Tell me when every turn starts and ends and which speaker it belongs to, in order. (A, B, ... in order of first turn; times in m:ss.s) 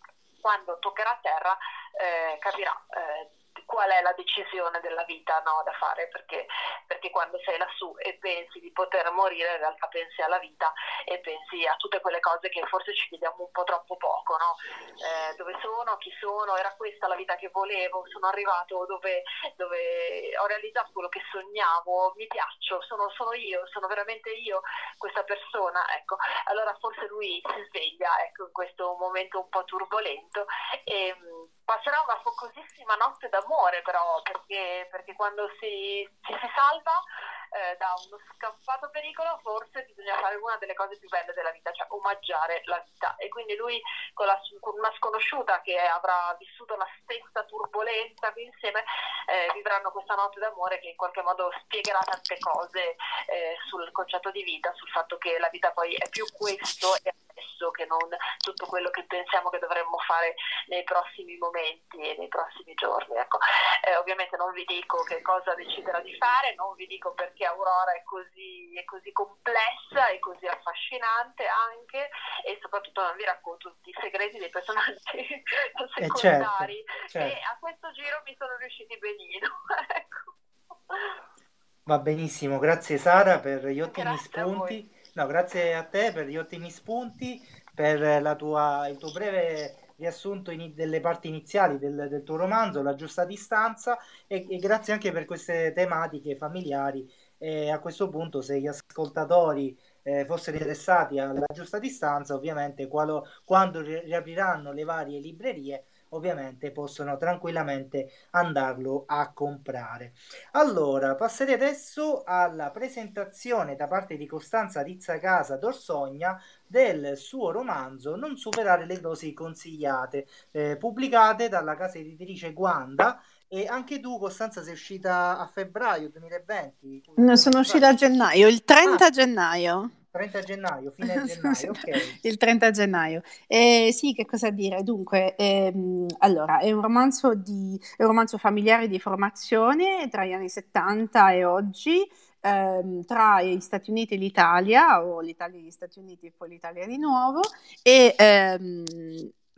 0:00.4-0:37.0 A
0:37.5-1:20.3 A
1:16.0-1:17.4 B
1:20.9-1:21.2 A
1:21.9-2:08.0 B
1:23.9-1:24.8 A
2:07.2-2:09.9 C
2:10.1-2:12.2 B
2:11.1-2:29.3 C